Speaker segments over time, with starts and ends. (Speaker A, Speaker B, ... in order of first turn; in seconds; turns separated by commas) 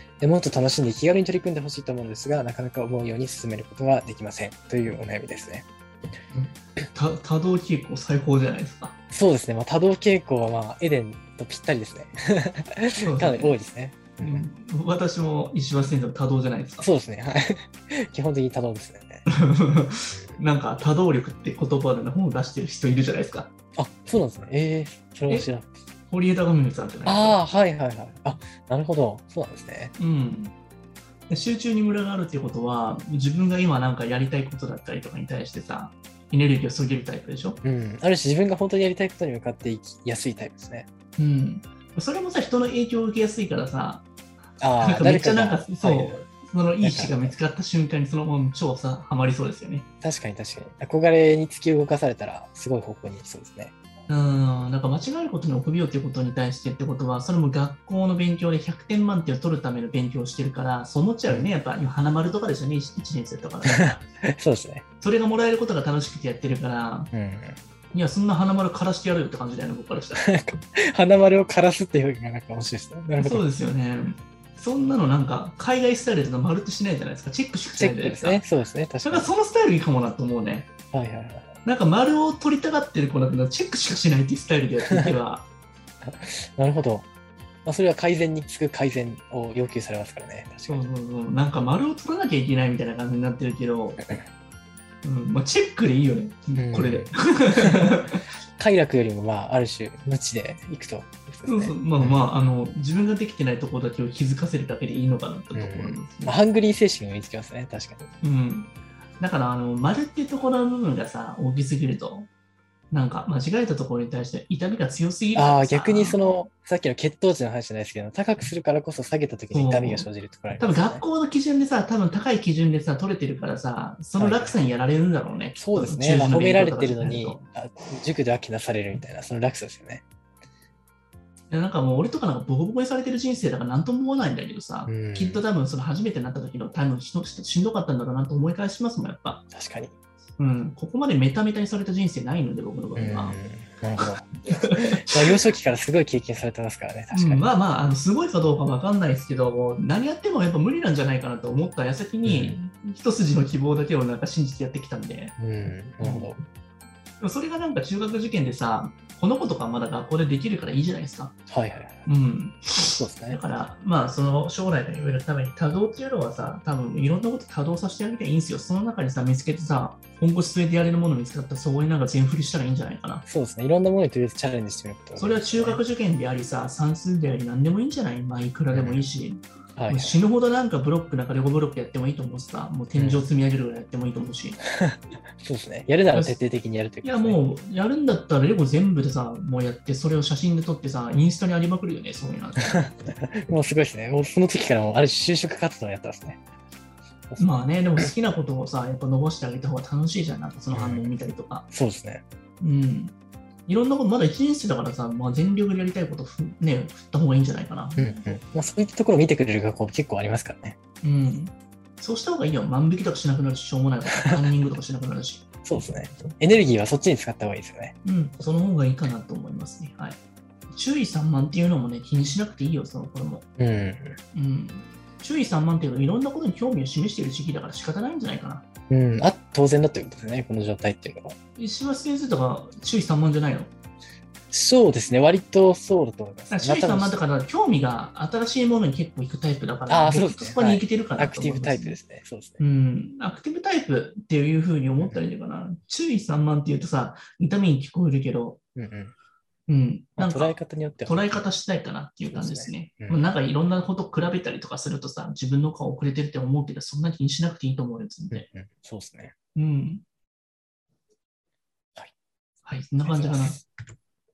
Speaker A: 0.2-5.7, Speaker B: 6.3-8.9, Speaker A: 9.1-14.4, Speaker B: 13.0-13.6, Speaker B: 14.2-16.9, Speaker A: 16.8-19.2, Speaker B: 19.3-23.5, Speaker A: 20.1-20.4, Speaker A: 23.8-25.8, Speaker B: 26.1-27.4, Speaker A: 27.0-29.9, Speaker B: 30.0-30.5, Speaker B: 31.3-37.6, Speaker A: 37.6-40.9, Speaker B: 41.2-44.0, Speaker A: 44.6-46.2, Speaker B: 44.8-49.9, Speaker A: 46.8-47.4, Speaker A: 50.0-53.7, Speaker B: 54.1-64.0, Speaker A: 63.7-64.8, Speaker B: 65.0-67.1, Speaker A: 67.1-67.6, Speaker B: 67.9-70.2, Speaker A: 70.2-73.4, Speaker B: 73.2-78.4, Speaker A: 77.7-79.3, Speaker B: 79.0-80.7, Speaker A: 80.9-81.5, Speaker B: 81.6-85.5, Speaker A: 86.0-87.0, Speaker A: 87.7-90.8, Speaker B: 90.7-94.0, Speaker B: 95.0-98.2, Speaker A: 96.5-97.9, Speaker A: 98.6-102.2, Speaker B: 101.4-106.4, Speaker A: 105.5-108.1, Speaker B: 108.2-112.3, Speaker B: 112.9-116.2, Speaker A: 115.3-121.0, Speaker B: 119.5-120.1, Speaker B: 120.6-127.4, Speaker A: 124.2-124.6, Speaker A: 125.5-130.0, Speaker B: 131.5-139.4, Speaker A: 134.8-135.4, Speaker A: 139.5-139.9, Speaker B: 140.4-143.4, Speaker A: 142.9-147.5, Speaker B: 144.0-145.4, Speaker B: 147.1-155.3, Speaker A: 152.2-152.6, Speaker A: 155.4-156.4, Speaker B: 156.0-156.3, Speaker B: 157.2-161.3, Speaker A: 161.5-162.1, Speaker B: 162.1-173.2, Speaker A: 163.0-163.4, Speaker A: 173.2-175.8, Speaker B: 175.2-184.6, Speaker A: 178.7-179.0, Speaker A: 179.8-180.2, Speaker A: 182.9-183.3, Speaker A: 184.8-187.4, Speaker B: 186.1-186.4, Speaker B: 187.0-192.8, Speaker A: 192.8-196.4, Speaker A: 197.3-198.1, Speaker B: 197.4-201.7, Speaker A: 200.7-201.1, Speaker A: 201.7-202.2, Speaker B: 202.6-203.1, Speaker B: 203.7-208.4, Speaker A: 208.0-210.8, Speaker B: 211.0-215.4, Speaker A: 215.6-217.9, Speaker B: 218.0-220.2, Speaker B: 220.7-223.4, Speaker A: 223.6-224.2, Speaker B: 224.3-228.6, Speaker A: 228.9-231.3, Speaker B: 231.6-233.7, Speaker A: 234.5-237.2, Speaker B: 236.5-242.0, Speaker A: 239.9-242.6, Speaker B: 242.6-248.6, Speaker A: 248.7-249.1, Speaker B: 249.7-258.4, Speaker A: 250.2-251.4, Speaker A: 252.3-253.2, Speaker A: 258.3-259.3, Speaker B: 259.6-260.0, Speaker B: 262.6-263.6, Speaker A: 263.0-263.6